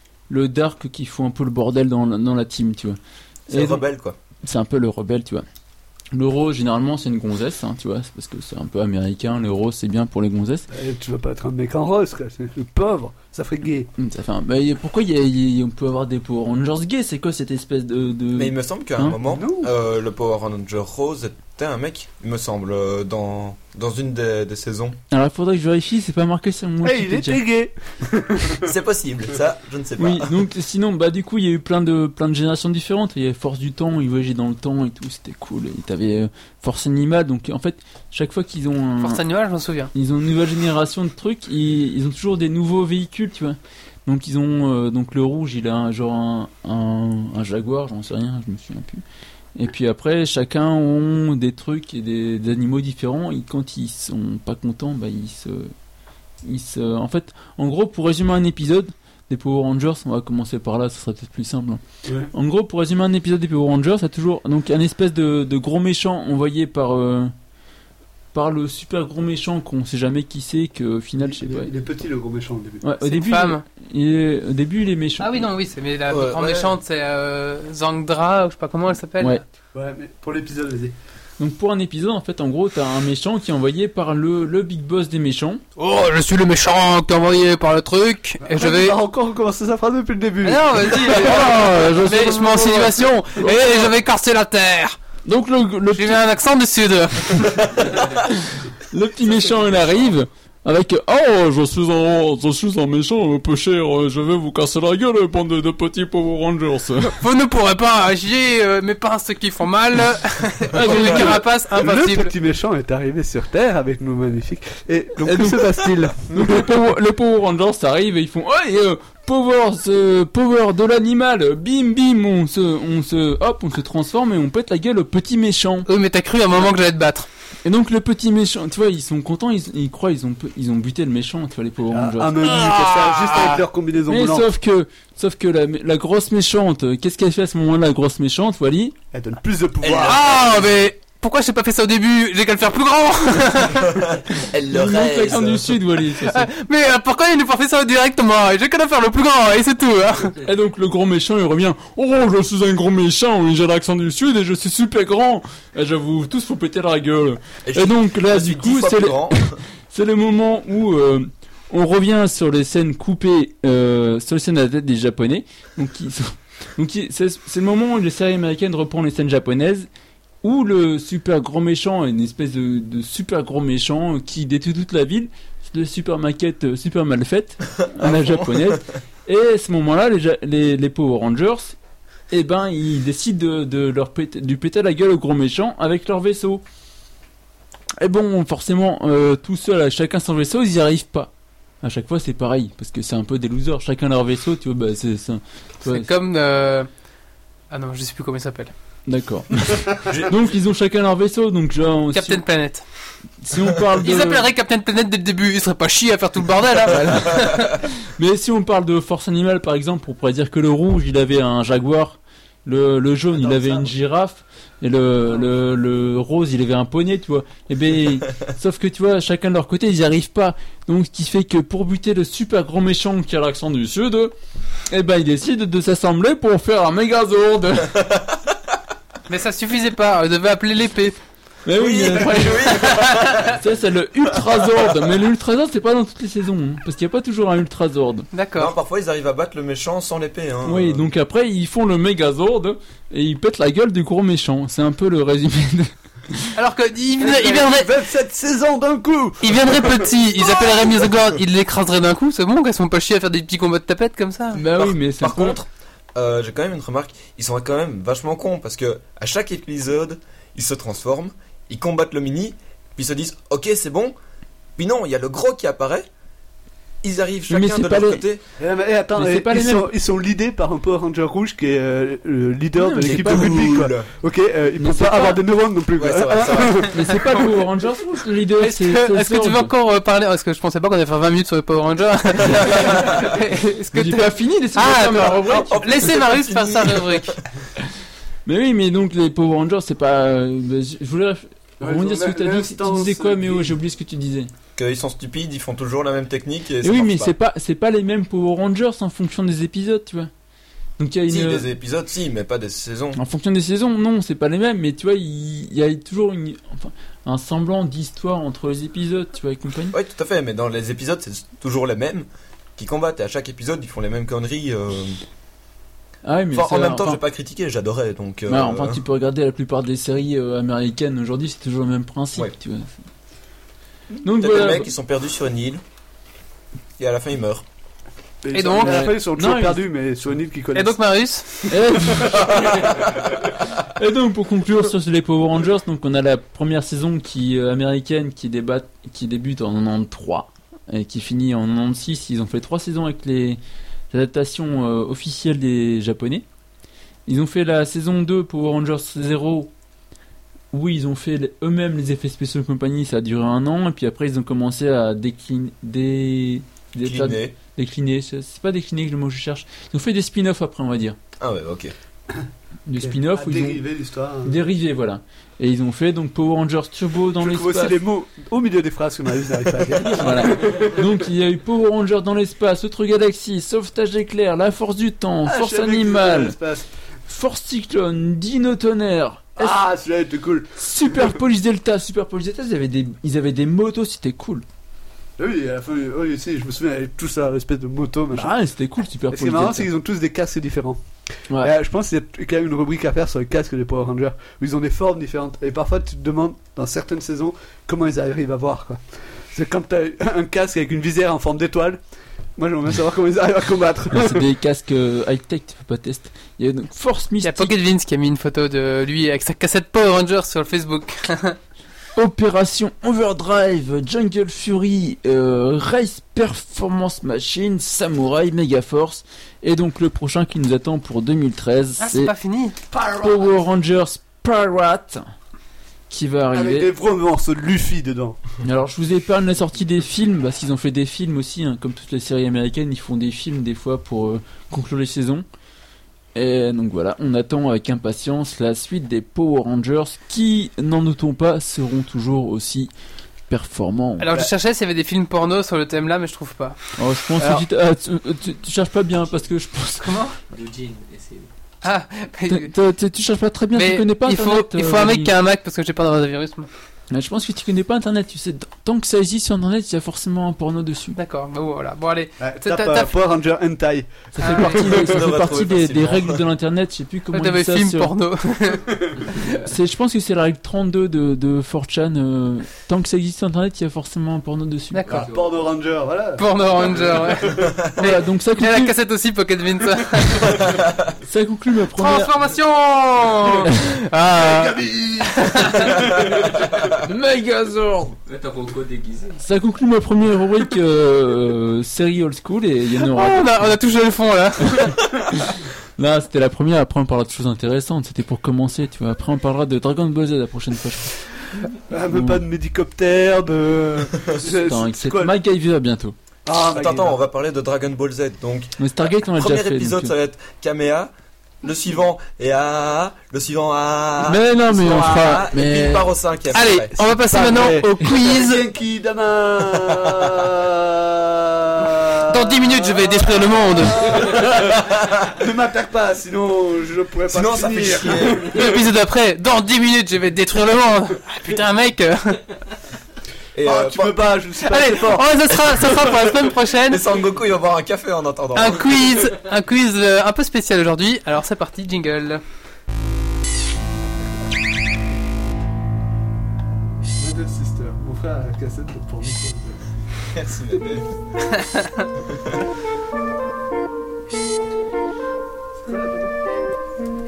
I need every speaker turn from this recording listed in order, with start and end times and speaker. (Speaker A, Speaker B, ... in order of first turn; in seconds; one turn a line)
Speaker A: 0.3-3.8
Speaker B: 3.5-4.2
Speaker A: 4.4-5.4
Speaker A: 6.1-10.7
Speaker C: 10.7-13.9
Speaker A: 14.0-19.2
Speaker B: 18.3-25.0
Speaker C: 19.2-19.7
Speaker A: 25.1-27.4
Speaker C: 26.8-28.7
Speaker B: 28.6-30.3
Speaker A: 30.0-39.2
Speaker D: 39.0-39.9
Speaker A: 39.9-49.0
Speaker A: 49.5-55.7
Speaker A: 56.4-67.3
Speaker C: 62.0-62.3
Speaker A: 68.3-71.7
Speaker C: 71.2-72.8
Speaker A: 72.8-75.5
Speaker D: 73.0-73.6
Speaker D: 75.2-79.4
Speaker B: 76.1-76.8
Speaker C: 79.7-80.9
Speaker A: 81.4-85.6
Speaker D: 85.8-89.0
Speaker C: 88.4-91.2
Speaker D: 90.4-95.0
Speaker A: 90.9-93.9
Speaker A: 95.2-96.2
Speaker D: 95.9-97.9
Speaker A: 97.8-107.2
Speaker D: 107.2-112.3
Speaker A: 110.7-111.5
Speaker C: 111.8-116.7
Speaker A: 115.2-115.7
Speaker A: 116.3-125.9
Speaker D: 125.8-127.3
Speaker A: 127.6-139.0
Speaker C: 131.9-134.5
Speaker C: 139.1-140.2
Speaker B: 139.8-140.7
Speaker D: 140.0-144.2
Speaker B: 144.1-145.8
Speaker A: 144.7-146.5
Speaker D: 146.2-150.4
Speaker A: 150.4-169.9
Speaker B: 157.7-159.6
Speaker A: 170.4-181.8
Speaker B: 177.8-178.8
Speaker A: 182.3-186.6
Speaker A: 188.0-196.1
Speaker D: 195.9-196.9
Speaker D: 197.7-198.7
Speaker A: 199.1-202.4
Speaker B: 200.1-200.3
Speaker D: 202.1-202.8
Speaker A: 203.4-204.5
Speaker D: 204.0-207.8
Speaker A: 206.9-224.3
Speaker A: 224.9-228.2
Speaker D: 229.3-231.2
Speaker A: 231.6-238.3
Speaker B: 231.7-233.6
Speaker D: 232.9-233.2
Speaker D: 238.3-238.7
Speaker B: 238.6-241.1
Speaker A: 240.6-246.5
Speaker D: 246.5-247.9
Speaker C: 247.2-250.9
Speaker D: 249.4-254.6
Speaker A: 254.5-255.6
Speaker B: 254.8-264.1
Speaker B: 264.8-266.1
Speaker B: 267.0-268.4
Speaker A: 267.5-268.2
Speaker C: 268.6-277.2
Speaker A: 269.1-269.9
Speaker A: 272.7-273.7
Speaker B: 273.0-274.1
Speaker A: 274.8-275.4
Speaker B: 276.0-277.0
Speaker A: 276.9-279.7
Speaker D: 278.6-287.4
Speaker B: 282.5-283.2
Speaker A: 283.9-286.1
Speaker B: 285.5-287.4
Speaker A: 288.4-294.5
Speaker C: 291.8-293.7
Speaker B: 294.8-297.3
Speaker A: 296.8-300.3
Speaker A: 301.0-301.7
Speaker B: 301.3-303.2
Speaker A: 303.1-309.9
Speaker B: 309.9-315.2
Speaker A: 316.2-317.2
Speaker B: 316.5-319.0
Speaker A: 318.5-322.9
Speaker A: 324.2-324.9
Speaker B: 324.2-325.8
Speaker B: 327.0-327.6
Speaker C: 328.4-331.0
Speaker D: 328.5-329.1
Speaker A: 328.8-329.8
Speaker D: 330.7-331.5
Speaker C: 331.7-332.4
Speaker A: 331.7-333.1
Speaker A: 333.7-343.6
Speaker A: 344.1-346.4
Speaker A: 347.3-349.7
Speaker A: 350.7-361.2
Speaker B: 357.0-357.5
Speaker B: 361.4-361.9
Speaker A: 362.9-363.8
Speaker C: 363.0-364.5
Speaker A: 364.4-368.0
Speaker C: 367.4-371.0
Speaker A: 369.9-376.6
Speaker C: 375.4-376.9
Speaker A: 377.3-379.8
Speaker C: 379.6-381.3
Speaker A: 380.8-384.6
Speaker C: 385.4-388.5
Speaker A: 388.3-389.9
Speaker C: 389.3-391.0
Speaker C: 391.6-402.0
Speaker C: 402.6-404.4
Speaker A: 404.1-407.7
Speaker D: 407.4-411.6
Speaker A: 412.1-422.3
Speaker D: 422.0-422.8
Speaker A: 422.9-425.2
Speaker C: 422.9-423.4
Speaker A: 426.1-426.9
Speaker C: 426.5-428.4
Speaker A: 428.6-435.4
Speaker A: 436.3-442.9
Speaker A: 443.5-444.3
Speaker D: 444.2-446.8
Speaker A: 447.0-450.2
Speaker C: 447.4-447.6
Speaker D: 450.0-450.4
Speaker E: 450.5-451.5
Speaker D: 451.8-452.7
Speaker A: 452.5-455.3
Speaker D: 453.7-456.7
Speaker A: 457.1-461.2
Speaker D: 461.1-463.1
Speaker C: 462.4-465.0
Speaker A: 464.3-468.1
Speaker D: 464.4-464.9
Speaker B: 464.8-466.4
Speaker D: 467.3-469.6
Speaker A: 469.6-475.0
Speaker D: 474.9-475.3
Speaker C: 475.1-477.8
Speaker E: 475.1-475.5
Speaker D: 476.4-480.6
Speaker A: 478.0-478.9
Speaker A: 481.2-482.3
Speaker D: 482.0-486.0
Speaker C: 484.3-486.7
Speaker A: 487.0-488.2
Speaker E: 488.3-489.4
Speaker A: 489.4-493.7
Speaker D: 493.0-494.9
Speaker A: 494.6-501.2
Speaker C: 501.9-505.3
Speaker A: 502.0-502.4
Speaker A: 504.4-506.1
Speaker C: 506.4-507.1
Speaker B: 506.6-511.1
Speaker A: 508.8-510.1
Speaker B: 511.6-516.9
Speaker A: 514.2-516.1
Speaker D: 516.5-518.6
Speaker C: 517.0-528.8
Speaker B: 519.7-520.3
Speaker D: 522.2-524.2
Speaker B: 527.3-528.5
Speaker D: 528.5-532.5
Speaker B: 533.5-534.3
Speaker C: 533.6-535.3
Speaker D: 534.6-537.0
Speaker B: 536.9-539.1
Speaker D: 538.5-542.4
Speaker C: 547.1-550.0
Speaker B: 550.3-551.1
Speaker D: 551.6-552.1
Speaker C: 555.8-556.3